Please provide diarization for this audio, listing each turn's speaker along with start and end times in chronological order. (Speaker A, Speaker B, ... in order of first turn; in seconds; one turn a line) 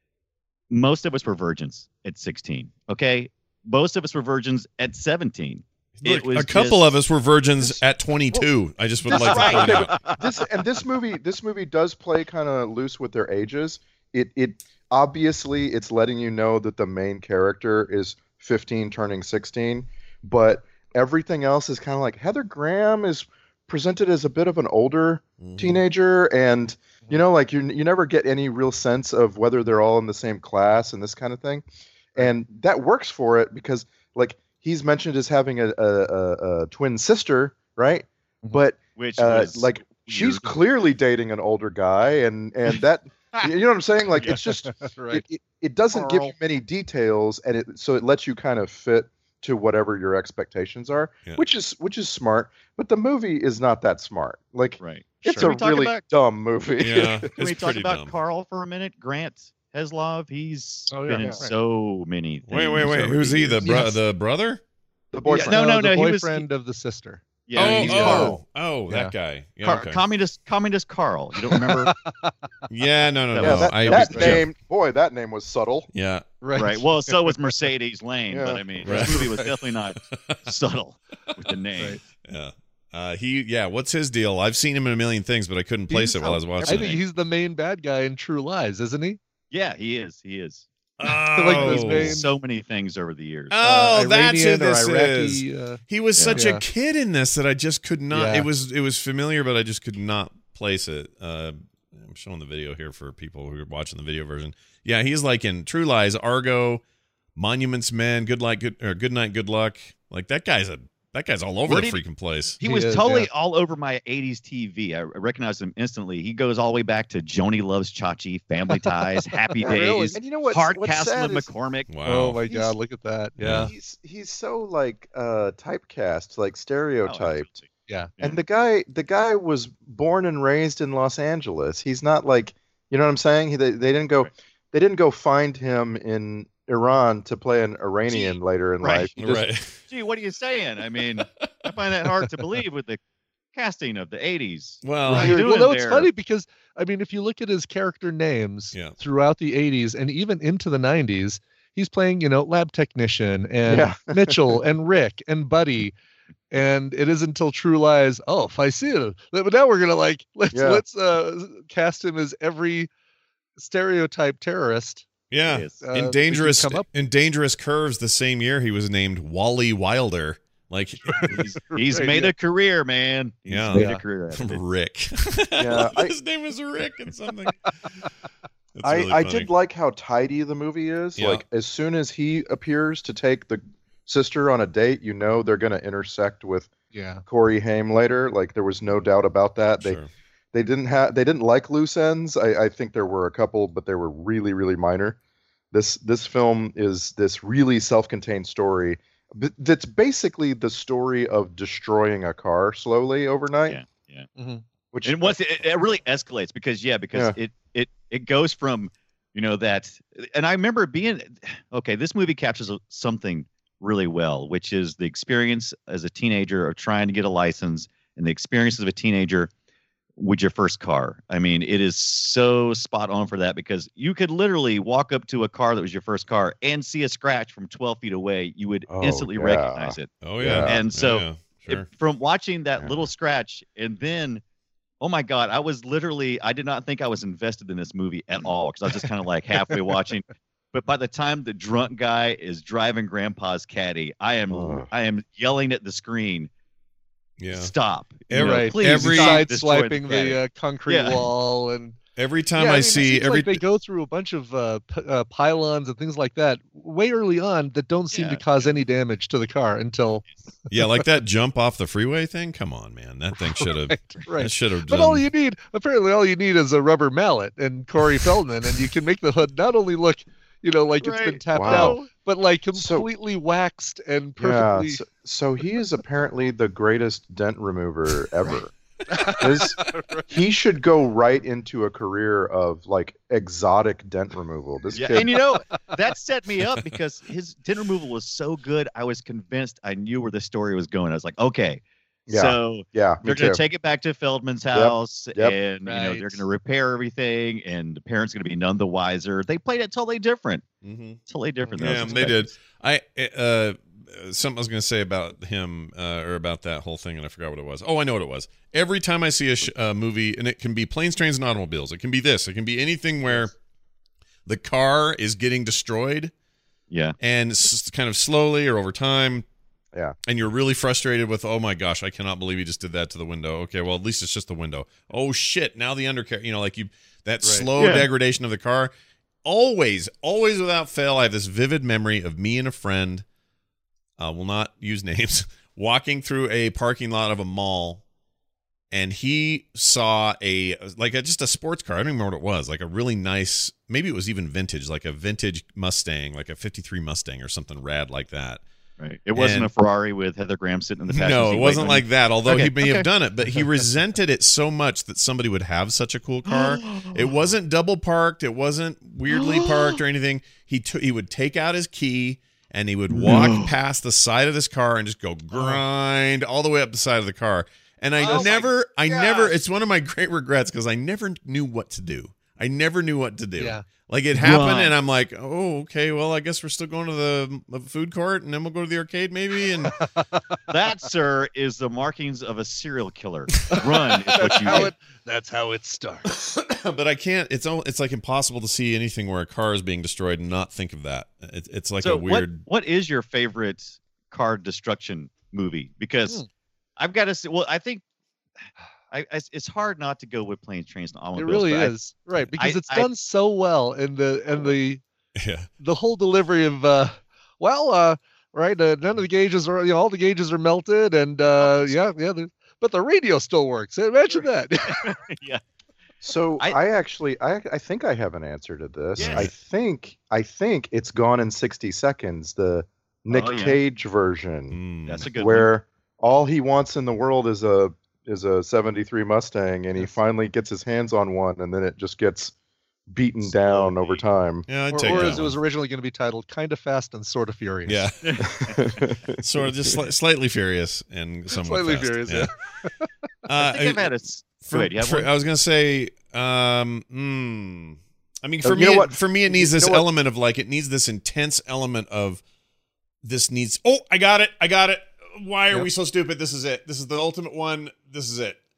Speaker A: 0.7-6.9
Speaker B: 6.0-9.9
Speaker C: 7.6-8.4
Speaker C: 9.1-31.6
Speaker A: 9.1-10.0
Speaker B: 25.4-25.8
Speaker C: 32.1-57.2
Speaker A: 39.0-40.5
Speaker D: 44.3-45.2
Speaker A: 46.0-46.3
Speaker A: 54.8-56.0
Speaker B: 56.8-58.1
Speaker A: 57.4-63.8
Speaker D: 60.9-61.5
Speaker B: 62.5-64.6
Speaker D: 63.6-64.0
Speaker C: 65.1-65.6
Speaker D: 65.2-68.4
Speaker A: 65.4-66.5
Speaker A: 67.5-68.3
Speaker B: 67.5-70.0
Speaker A: 69.6-71.9
Speaker D: 71.5-72.3
Speaker B: 72.7-74.5
Speaker A: 73.3-74.3
Speaker C: 73.4-75.9
Speaker B: 75.9-76.2
Speaker D: 76.4-77.5
Speaker A: 76.5-82.0
Speaker C: 78.3-78.6
Speaker B: 78.8-79.3
Speaker D: 78.8-79.5
Speaker B: 80.1-80.4
Speaker B: 82.2-86.9
Speaker D: 85.9-89.2
Speaker A: 86.6-87.0
Speaker A: 89.5-90.7
Speaker B: 91.0-92.2
Speaker D: 91.0-92.3
Speaker A: 91.5-93.5
Speaker B: 93.5-106.8
Speaker D: 93.6-95.8
Speaker D: 96.3-96.6
Speaker D: 98.1-98.5
Speaker B: 107.3-112.6
Speaker A: 111.7-112.0
Speaker A: 112.6-121.9
Speaker D: 112.6-113.3
Speaker D: 119.6-120.2
Speaker C: 119.6-121.5
Speaker B: 121.9-122.4
Speaker D: 122.0-123.7
Speaker C: 122.5-122.7
Speaker B: 123.4-123.7
Speaker C: 123.5-127.5
Speaker A: 127.0-127.7
Speaker C: 128.2-139.4
Speaker A: 138.1-139.1
Speaker B: 139.2-139.8
Speaker A: 139.9-143.0
Speaker A: 143.5-146.1
Speaker B: 144.8-145.4
Speaker D: 145.1-155.9
Speaker C: 153.6-154.6
Speaker D: 156.5-162.9
Speaker C: 160.5-160.8
Speaker D: 163.6-165.1
Speaker B: 165.3-171.4
Speaker A: 165.4-165.8
Speaker D: 165.8-166.8
Speaker D: 171.2-172.3
Speaker A: 171.2-174.6
Speaker B: 173.5-177.7
Speaker D: 173.7-174.0
Speaker C: 175.6-176.2
Speaker B: 178.8-179.5
Speaker C: 178.8-186.7
Speaker B: 181.2-181.4
Speaker D: 186.9-187.2
Speaker C: 187.2-190.0
Speaker B: 189.8-190.1
Speaker C: 190.5-195.2
Speaker C: 195.7-203.8
Speaker A: 203.7-204.3
Speaker D: 204.4-204.6
Speaker C: 204.9-205.4
Speaker A: 205.0-219.5
Speaker A: 220.2-230.1
Speaker C: 228.9-230.7
Speaker B: 230.2-231.8
Speaker A: 230.6-234.4
Speaker A: 235.0-246.5
Speaker C: 244.5-244.9
Speaker B: 247.4-247.7
Speaker A: 247.5-251.3
Speaker B: 248.3-249.5
Speaker D: 248.3-252.0
Speaker B: 252.2-253.6
Speaker D: 252.6-260.2
Speaker A: 258.1-258.7
Speaker B: 260.7-265.2
Speaker D: 263.4-275.0
Speaker A: 271.0-272.1
Speaker C: 271.5-271.9
Speaker C: 272.7-273.1
Speaker C: 274.4-278.7
Speaker D: 279.1-280.3
Speaker C: 279.4-285.3
Speaker A: 284.9-300.6
Speaker C: 292.3-293.6
Speaker C: 294.7-295.6
Speaker D: 295.8-296.4
Speaker B: 300.8-301.2
Speaker A: 301.3-302.5
Speaker D: 301.7-302.3
Speaker B: 301.8-313.5
Speaker B: 314.4-316.3
Speaker A: 316.9-317.1
Speaker B: 317.2-319.4
Speaker B: 320.3-328.9
Speaker D: 327.4-327.7
Speaker C: 327.8-328.1
Speaker B: 329.4-333.2
Speaker B: 334.2-338.0
Speaker B: 338.9-348.6
Speaker A: 349.0-353.1
Speaker B: 349.3-349.7
Speaker B: 351.1-380.0
Speaker A: 356.5-357.2
Speaker A: 359.3-360.0
Speaker A: 363.2-363.7
Speaker D: 365.5-365.8
Speaker A: 368.2-369.5
Speaker D: 373.6-373.8
Speaker A: 374.4-374.9
Speaker A: 380.7-384.9
Speaker D: 383.7-386.5
Speaker B: 386.6-392.6
Speaker A: 392.0-396.4
Speaker A: 397.0-398.0
Speaker A: 399.1-401.9
Speaker D: 401.4-405.0
Speaker A: 402.5-403.1
Speaker B: 405.4-405.7
Speaker D: 405.8-415.1
Speaker A: 411.5-412.0
Speaker A: 414.3-415.6
Speaker C: 416.2-424.8
Speaker B: 419.1-419.5
Speaker A: 419.2-419.5
Speaker A: 423.3-423.8
Speaker B: 424.7-425.2
Speaker A: 425.1-425.7
Speaker C: 425.3-432.5
Speaker C: 433.1-434.7
Speaker A: 433.4-434.2
Speaker B: 434.7-435.6
Speaker D: 434.9-438.0
Speaker B: 437.9-438.1
Speaker A: 438.2-439.0
Speaker C: 438.7-439.4
Speaker B: 439.4-442.5
Speaker D: 441.5-443.1
Speaker B: 443.5-444.1
Speaker A: 443.6-445.3
Speaker B: 444.6-452.4
Speaker C: 448.6-450.0
Speaker B: 453.2-458.6